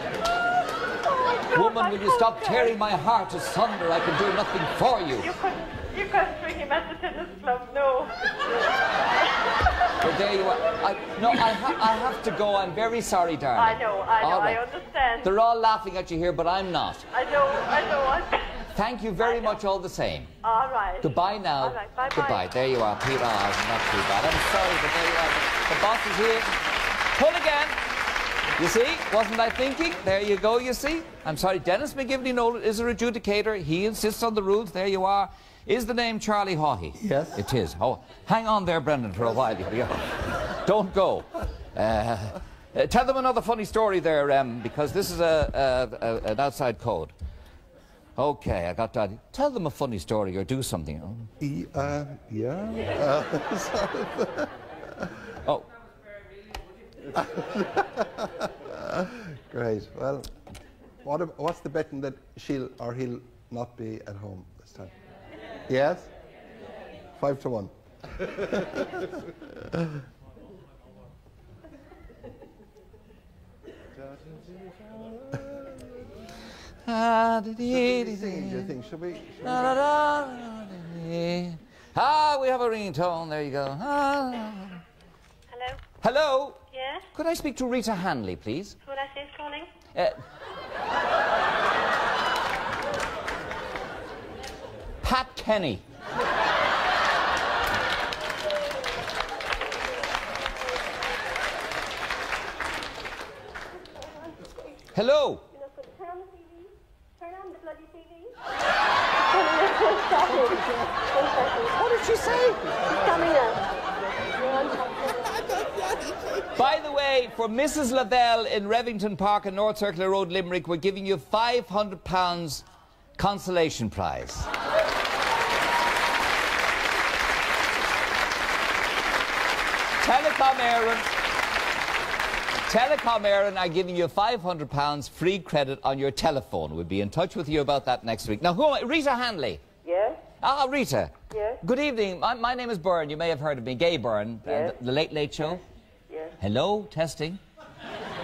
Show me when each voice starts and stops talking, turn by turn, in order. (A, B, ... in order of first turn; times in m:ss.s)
0:01.0-0:02.8 A
0:01.5-0:05.3 B
0:05.2-0:10.0 A
0:10.0-0:14.6 B
0:13.6-0:15.3 A
0:15.2-0:17.1 B
0:17.1-0:18.5 A
0:18.7-0:20.3 B
0:19.2-0:19.6 A
0:20.4-0:22.4 A
0:21.0-0:26.6 B
0:27.1-0:27.8 B
0:28.6-0:47.1 B
0:37.0-0:37.4 C
0:48.2-0:51.3 B
0:51.4-0:54.5 C
0:57.2-1:00.3 C
1:01.0-1:04.9 C
1:05.7-1:06.1 C
1:07.2-1:09.1 C
1:16.8-1:18.7 B
1:17.7-1:19.8 C
1:19.4-1:24.8 B
1:25.5-1:25.8 A
1:26.0-1:26.6 B
1:26.7-1:27.0 A
1:27.1-1:28.8 B
1:28.8-1:29.7 A
1:35.0-1:35.8 B
1:44.9-1:45.5 B
1:49.5-1:50.0 A
1:50.3-1:50.8 B
1:51.4-1:53.3 B
1:54.5-1:54.9 A
1:55.4-1:55.7 B
1:56.4-2:02.6 B
2:03.2-2:04.5 B
2:10.0-2:11.1 B
2:12.7-2:19.6 B
2:19.8-2:20.2 D
2:20.4-2:25.6 B
2:21.3-2:21.6 D
2:24.4-2:24.8 D
2:25.4-2:26.4 D
2:26.4-2:27.4 B